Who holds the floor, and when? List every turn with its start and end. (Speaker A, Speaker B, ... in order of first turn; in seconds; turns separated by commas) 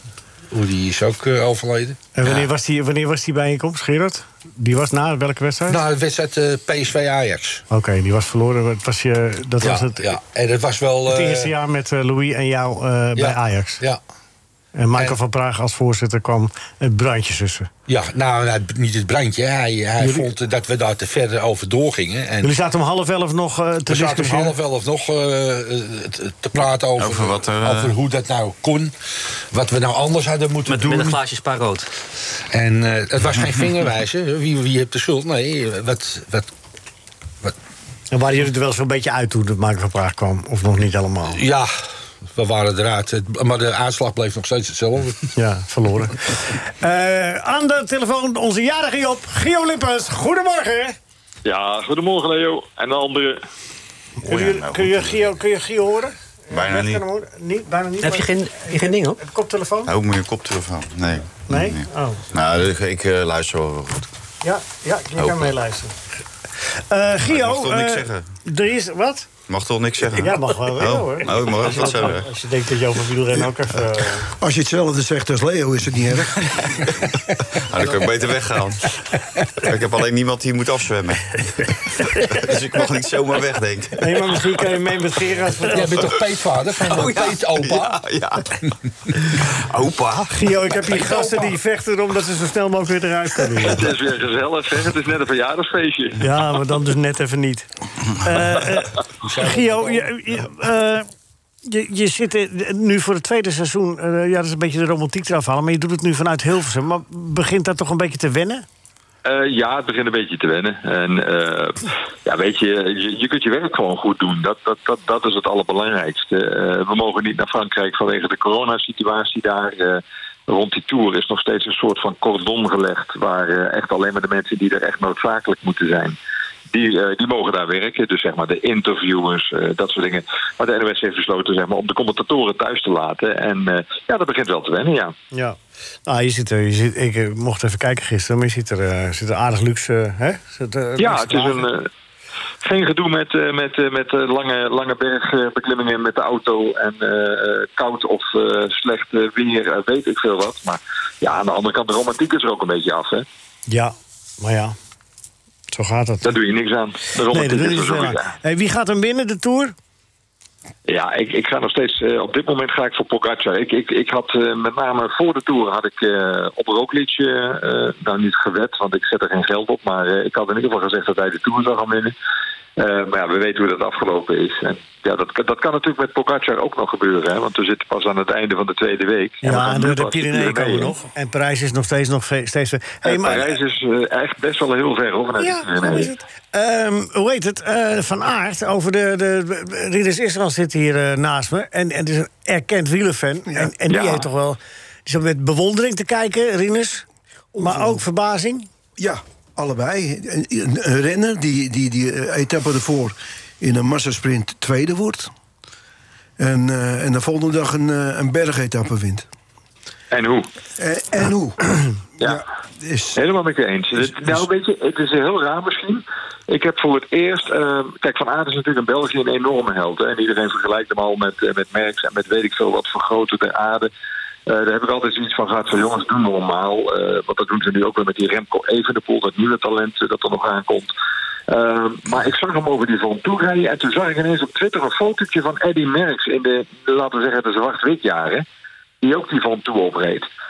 Speaker A: 0.5-2.5, Speaker B: 2.1-5.8, Speaker A: 5.7-7.6, Speaker B: 7.7-10.2, Speaker A: 9.6-11.5, Speaker B: 11.1-13.8, Speaker A: 13.2-14.0, Speaker B: 14.8-17.7, Speaker A: 17.9-22.5, Speaker B: 20.0-20.3, Speaker B: 22.4-24.5, Speaker A: 23.9-28.9, Speaker C: 27.0-27.9, Speaker A: 29.5-31.2, Speaker D: 30.6-31.9, Speaker A: 32.5-36.5, Speaker B: 38.1-41.4, Speaker A: 41.3-41.7, Speaker A: 42.3-45.3, Speaker B: 45.4-51.0, Speaker E: 51.4-53.4, Speaker B: 54.2-59.9, Speaker C: 54.2-55.3, Speaker C: 56.5-57.0, Speaker D: 58.0-59.2, Speaker C: 59.9-64.1, Speaker B: 61.5-62.2, Speaker B: 64.4-66.0, Speaker C: 65.2-65.5, Speaker B: 66.7-69.3, Speaker C: 67.2-68.3, Speaker C: 69.5-72.3, Speaker B: 70.1-74.3, Speaker F: 74.4-76.6, Speaker C: 77.5-79.0, Speaker C: 79.5-81.6, Speaker C: 82.2-84.4, Speaker B: 84.0-86.1, Speaker A: 85.7-88.0, Speaker C: 87.0-88.5, Speaker C: 89.3-90.7, Speaker B: 90.3-93.9, Speaker A: 91.0-91.4, Speaker E: 93.6-96.2, Speaker B: 96.2-101.1, Speaker A: 99.2-100.2, Speaker B: 101.7-108.7, Speaker E: 109.2-126.2, Speaker E: 126.7-135.1, Speaker B: 135.3-141.7, Speaker E: 141.0-141.9, Speaker E: 142.6-153.2, Speaker B: 153.7-154.8, Speaker B: 155.7-156.3, Speaker E: 156.2-158.3, Speaker B: 157.3-159.7, Speaker E: 160.9-172.1, Speaker E: 172.8-180.9, Speaker B: 179.4-183.5, Speaker E: 183.0-186.1, Speaker B: 185.4-197.0, Speaker E: 193.9-194.2, Speaker F: 197.5-198.0, Speaker B: 197.6-198.7, Speaker F: 199.0-205.3, Speaker F: 206.4-209.2, Speaker E: 210.1-210.5, Speaker F: 210.8-213.2, Speaker E: 213.2-223.9, Speaker E: 224.5-230.9, Speaker E: 231.5-238.4, Speaker E: 239.0-240.3